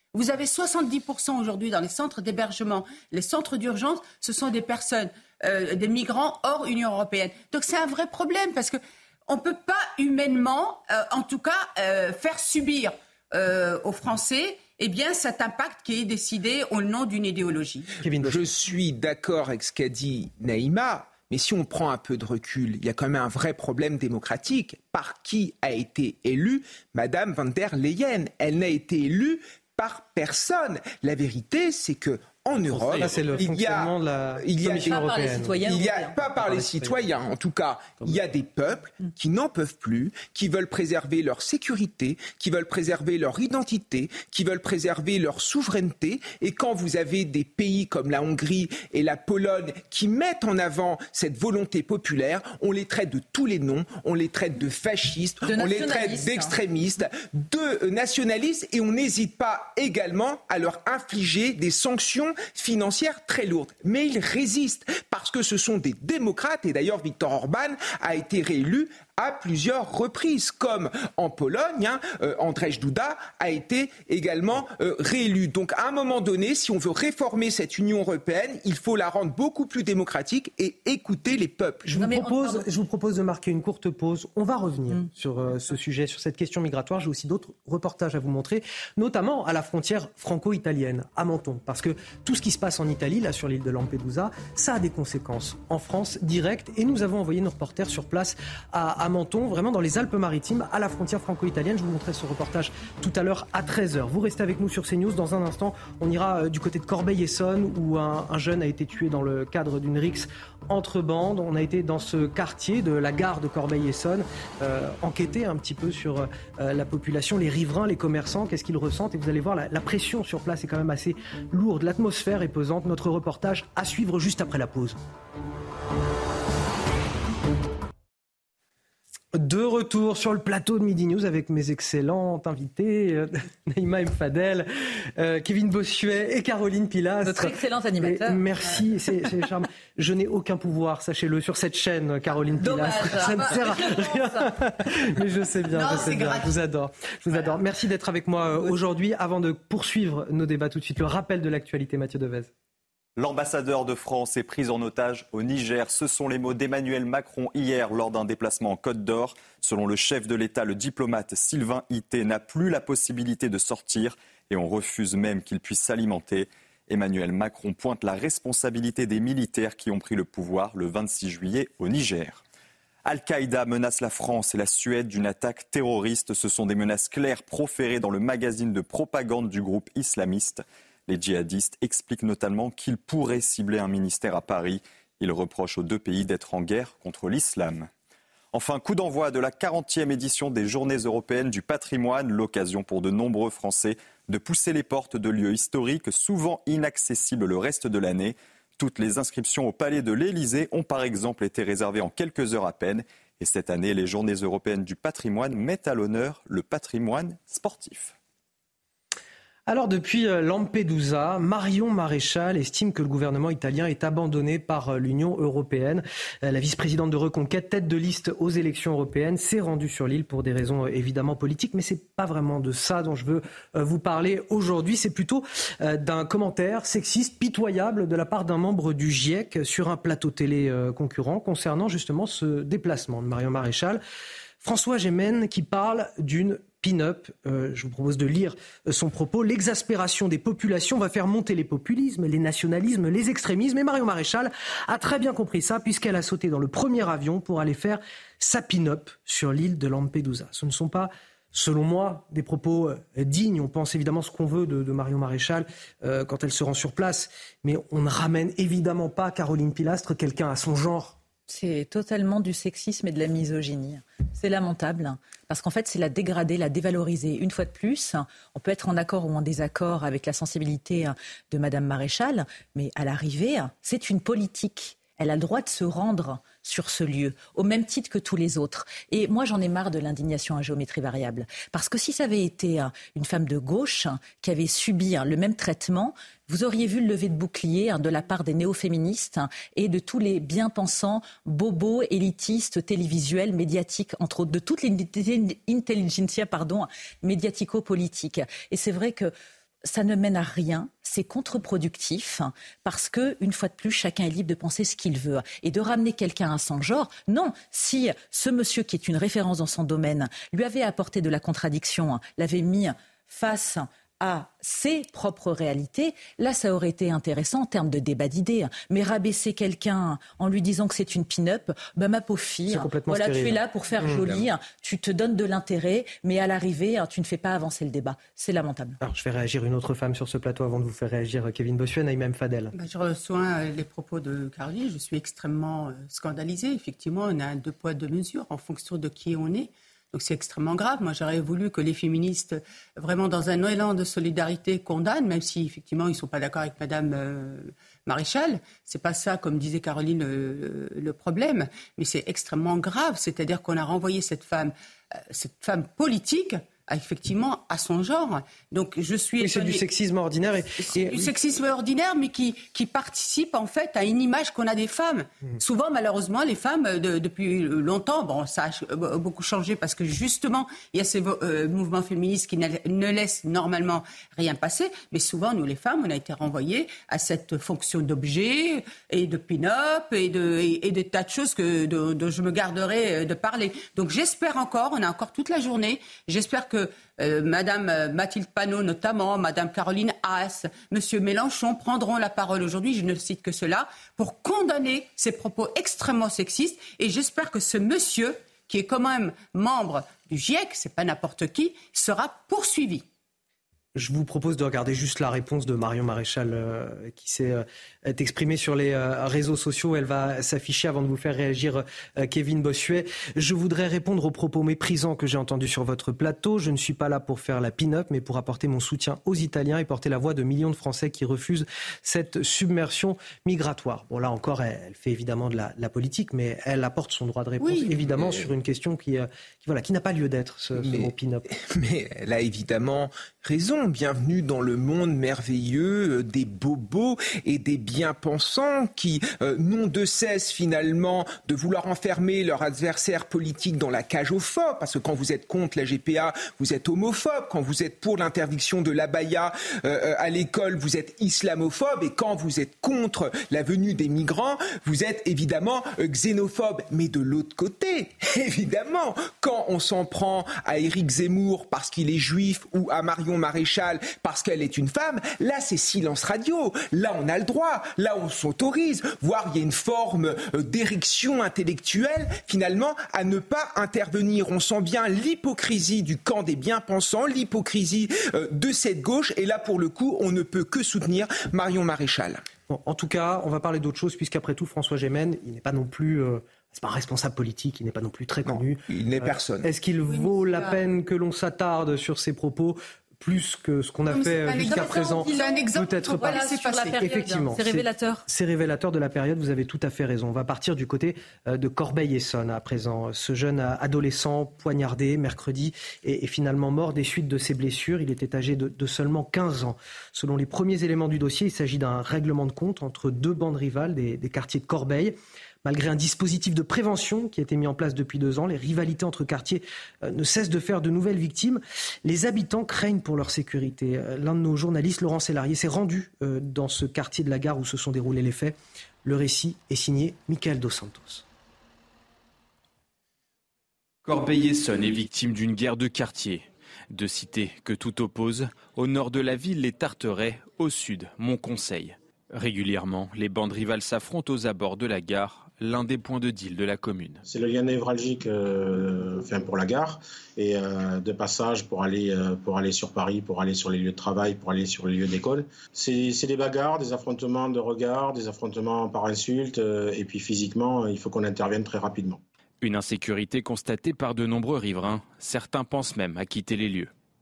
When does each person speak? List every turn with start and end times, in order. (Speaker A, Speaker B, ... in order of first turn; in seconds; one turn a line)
Speaker A: 0.1-17.9
Speaker B: 18.0-18.5
Speaker C: 18.2-81.9
Speaker B: 32.7-35.6
Speaker D: 34.8-36.2
Speaker B: 36.3-37.1
Speaker D: 55.4-56.5
Speaker B: 81.8-125.0
Speaker D: 81.9-82.7
Speaker B: 129.3-152.5
Speaker D: 137.2-138.4
Speaker D: 142.6-144.5
Speaker A: 145.7-146.5
Speaker E: 153.2-172.4
Speaker E: 173.1-187.9
Speaker E: 188.5-208.2
Speaker B: 209.7-234.0
Speaker B: 234.6-261.2
Speaker D: 261.5-299.3
Speaker D: 299.8-329.0
Speaker B: 322.7-324.3
Speaker B: 329.0-332.7
Speaker A: 332.8-359.8
Speaker B: 359.4-361.3
Speaker A: 361.0-403.1
Speaker B: 404.0-431.4
Speaker C: 428.1-428.5
Speaker C: 430.8-482.4
Speaker B: 482.7-496.4
Speaker C: 488.5-489.7
Speaker A: 490.1-490.8
Speaker A: 494.1-497.1
Speaker D: 494.6-498.2
Speaker B: 497.0-531.2
Speaker F: 534.0-547.2
Speaker G: 547.2-562.2
Speaker F: 562.6-566.9